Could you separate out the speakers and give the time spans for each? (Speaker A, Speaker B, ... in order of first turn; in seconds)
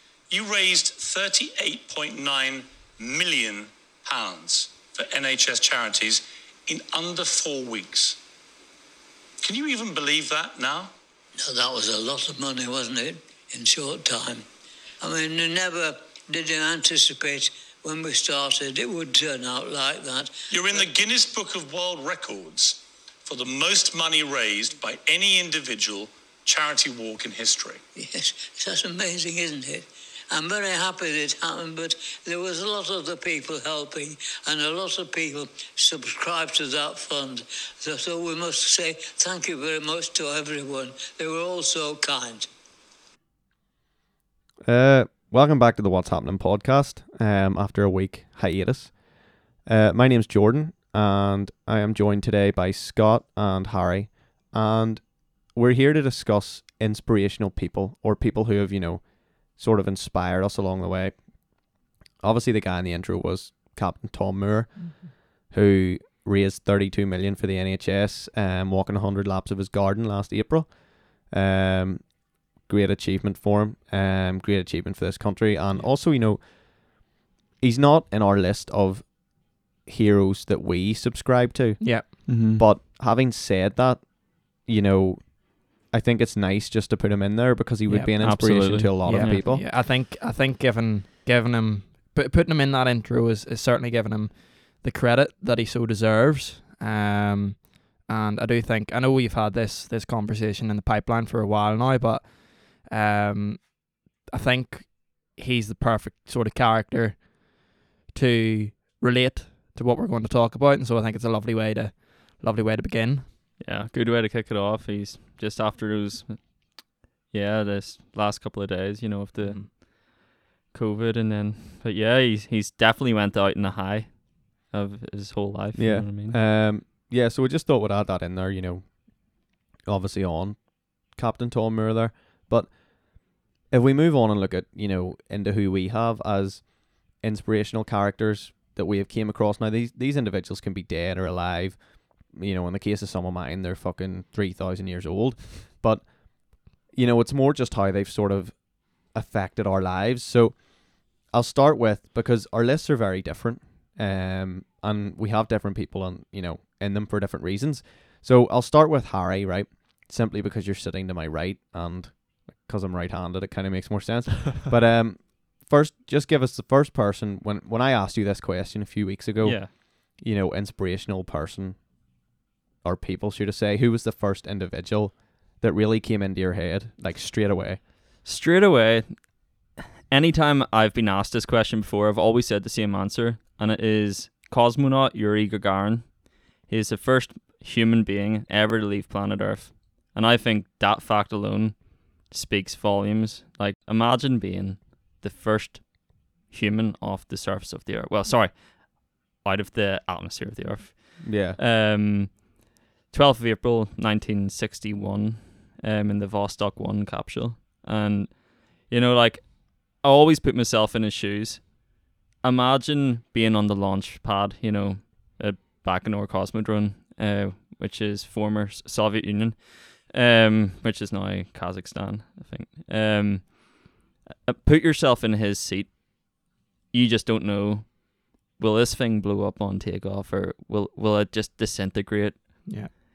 Speaker A: 0.3-8.2, 9.4-10.9, 20.5-27.8
Speaker B: 11.4-14.4, 15.0-20.9, 28.0-42.5
Speaker C: 44.6-77.0, 77.6-89.7, 125.8-171.9, 172.8-177.8, 201.2-201.6
Speaker D: 81.8-82.2, 87.9-88.5, 89.0-113.3, 119.4-119.7
Speaker E: 82.3-82.6, 88.2-89.5, 113.6-126.4, 169.4-169.7, 178.2-233.0